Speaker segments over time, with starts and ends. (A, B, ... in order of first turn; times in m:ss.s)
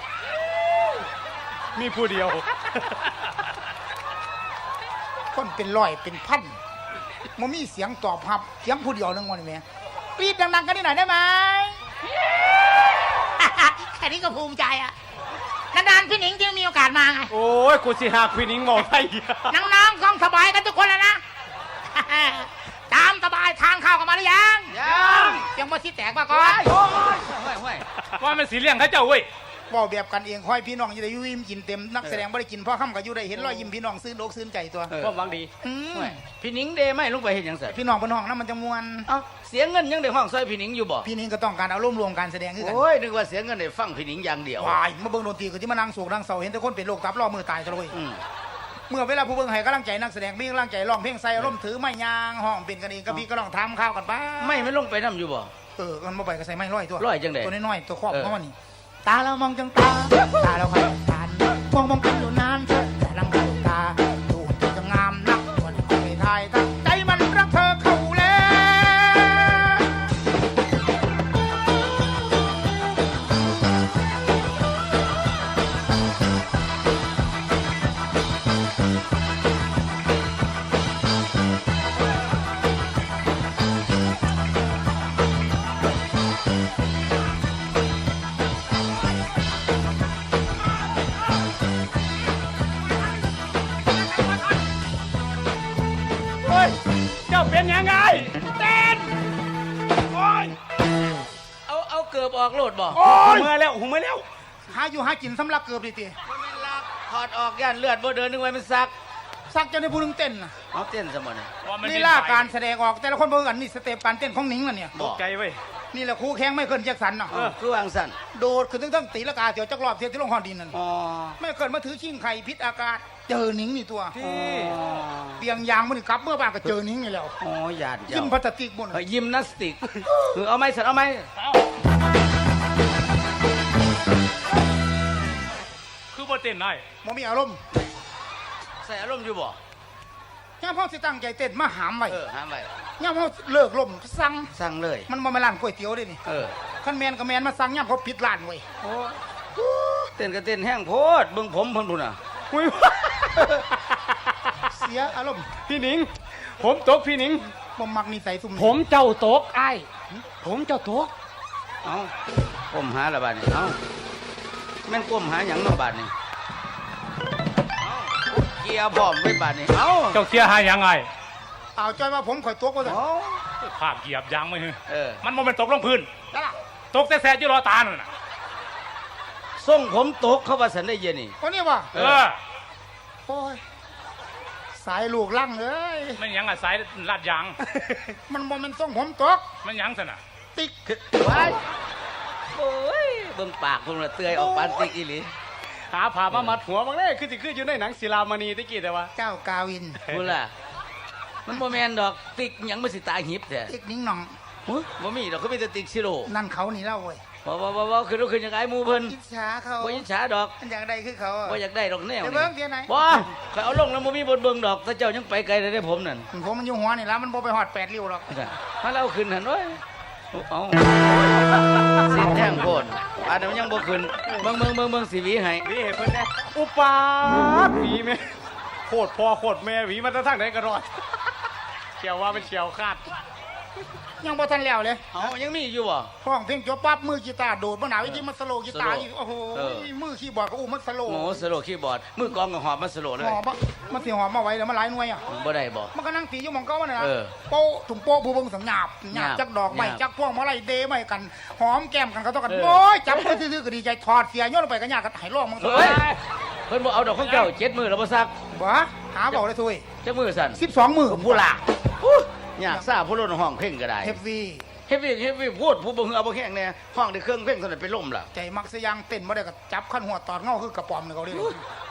0:01.7-0:03.5 A
0:05.3-0:06.6 B
0:07.4-0:09.6 B
0:10.2-0:11.8 B
0:13.0-0:14.9 B
0:15.7-0:17.3 B
0:17.3-0:19.6 A
0:19.5-0:21.2 B
0:21.9-0:26.7 B
0:24.7-0:25.5 C
0:26.3-0:27.9 C
0:28.1-0:29.3 A
0:29.7-0:34.9 B
0:33.4-0:33.6 C
0:34.9-0:35.2 C
0:35.0-0:35.5 A
0:35.6-0:36.2 B
0:35.9-0:37.8 C
0:37.7-0:39.1 B
0:39.1-0:41.1 C
0:41.0-0:42.8 B
0:42.6-0:44.8 C
0:44.6-0:47.9 B
0:47.9-0:48.2 C
0:48.9-0:54.7 B
0:54.4-0:55.5 C
0:55.8-1:10.1 B
0:57.0-0:57.5 C
0:58.1-0:58.3 C
1:36.4-1:39.0 A
1:40.2-1:40.6 A
1:41.7-1:43.0 C
1:42.9-1:44.2 A
1:44.7-1:46.2 B
1:46.2-1:48.9 C
1:49.5-1:50.5 B
1:50.7-1:51.5 C
1:51.6-1:52.5 A
1:51.8-1:55.0 B
1:54.9-1:55.2 C
1:55.0-1:55.6 A
1:55.9-1:57.4 B
1:57.3-1:58.2 C
1:58.3-2:00.8 B
2:00.7-2:01.4 C
2:01.4-2:04.2 B
2:04.1-2:04.8 A
2:04.2-2:05.4 C
2:05.4-2:07.4 B
2:07.4-2:08.4 C
2:08.1-2:09.0 B
2:08.9-2:11.3 C
2:16.1-2:16.8 A
2:17.0-2:17.6 B
2:18.8-2:19.6 C
2:20.6-2:22.2 B
2:22.1-2:22.7 C
2:23.0-2:24.5 B
2:24.5-2:25.1 C
2:25.1-2:26.2 B
2:26.2-2:26.5 C
2:26.8-2:28.6 B
2:28.8-2:32.2 C
2:32.5-2:33.6 A
2:34.6-2:35.5 B
2:35.7-2:37.4 A
2:37.8-2:38.8 B
2:38.5-2:39.9 A
2:40.4-2:41.1 A
2:41.8-2:42.1 C
2:42.7-2:43.8 C
2:44.8-2:46.1 C
2:47.8-2:50.2 C
2:50.1-2:51.1 A
2:51.8-2:53.0 B
2:52.8-2:53.4 C
2:53.6-2:56.1 A
2:54.9-2:55.2 C
2:56.9-2:58.1 A
2:59.6-3:01.4 C
3:01.4-3:01.9 B
3:01.9-3:02.2 C
3:01.9-3:02.4 A
3:03.3-3:03.6 B
3:04.7-3:06.2 B
3:06.2-3:08.0 A
3:08.1-3:09.4 B
3:09.6-3:10.2 A
3:10.9-3:11.6 C
3:12.5-3:15.3 C
3:15.9-3:19.1 A
3:16.3-3:16.6 C
3:19.2-3:20.0 B
3:20.0-3:20.5 C
3:21.4-3:23.7 C
3:23.7-3:24.3 B
3:24.7-3:26.3 C
3:26.2-3:27.2 B
3:27.4-3:29.1 C
3:29.1-3:30.0 B
3:29.8-3:30.5 C
3:30.6-3:31.6 B
3:31.4-3:36.3 C
3:32.2-3:33.2 B
3:36.3-3:38.3 B
3:38.3-3:39.8 C
3:40.3-3:45.7 C
3:45.6-3:51.0 A
3:52.0-3:53.0 A
3:54.2-3:55.3 B
3:55.1-3:56.1 C
3:56.2-4:01.4 B
3:58.0-3:59.9 C
4:01.0-4:03.4 C
4:03.2-4:05.3 B
4:05.3-4:05.9 C
4:05.9-4:16.1 B
4:07.0-4:07.3 C
4:09.1-4:10.0 C
4:12.5-4:13.4 C
4:15.6-4:18.3 C
4:18.5-4:19.8 B
4:20.0-4:24.2 C
4:20.5-4:21.5 B
4:24.0-4:24.6 B
4:24.9-4:28.3 C
4:28.3-4:31.6 B
4:31.3-4:31.6 C